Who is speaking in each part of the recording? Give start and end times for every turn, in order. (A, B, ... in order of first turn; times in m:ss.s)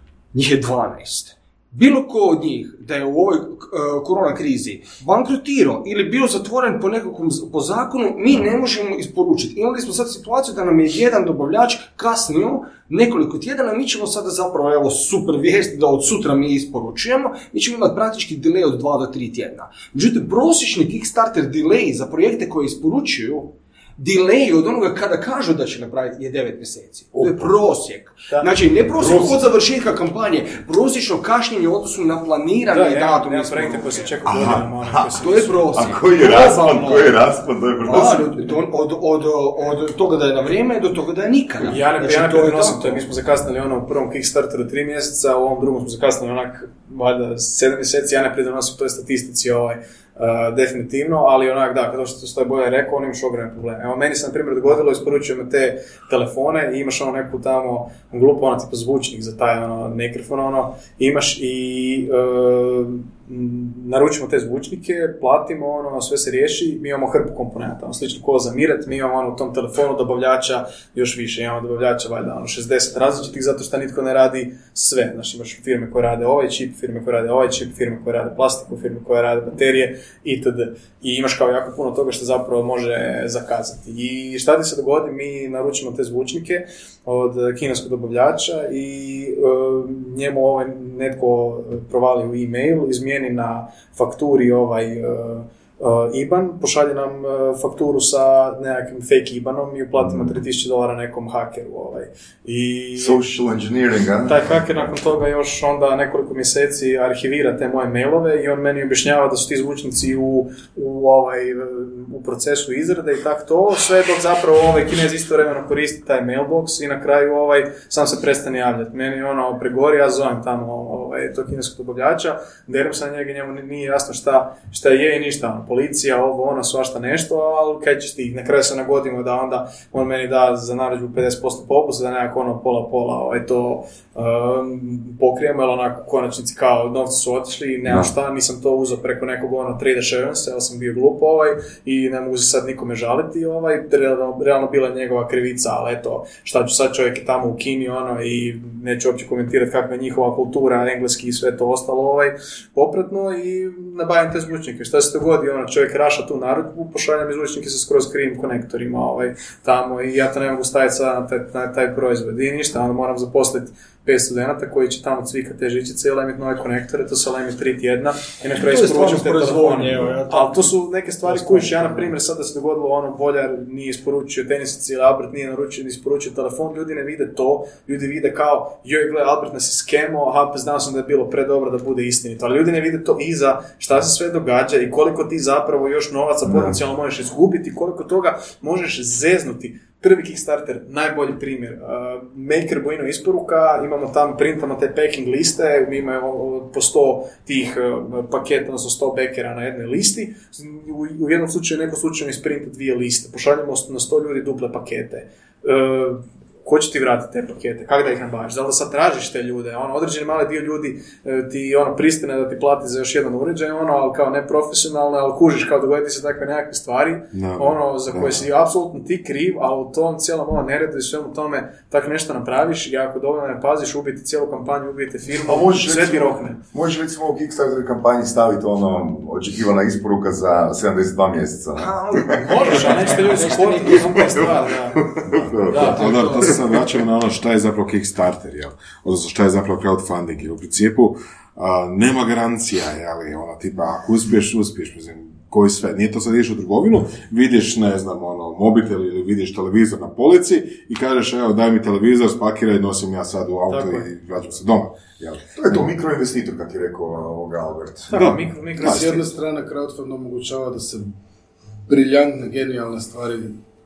0:00.3-0:34.2 A
0:27.1-0:27.5 B
0:28.9-0:29.5 B
0:32.7-0:35.7 C
0:34.2-0:35.2 B
0:35.1-0:37.2 A
0:35.7-0:38.3 B
0:37.8-0:43.0 A
0:37.9-0:38.4 C
0:41.6-1:43.2 C
1:43.0-1:44.5 B
1:44.2-3:46.6 C
2:17.8-2:18.1 B
2:48.6-2:52.1 A
3:06.5-3:06.8 B
3:37.3-3:38.4 D
3:45.4-3:57.0 B
3:51.7-3:54.7 A
3:52.4-3:55.0 C
3:55.4-4:15.4 D
3:55.7-3:56.0 C
3:55.7-3:56.5 A
4:13.7-4:14.1 C
4:15.5-4:18.3 B
4:18.1-4:19.3 C
4:18.2-4:19.1 D
4:18.8-4:21.1 E
4:21.9-4:23.6 E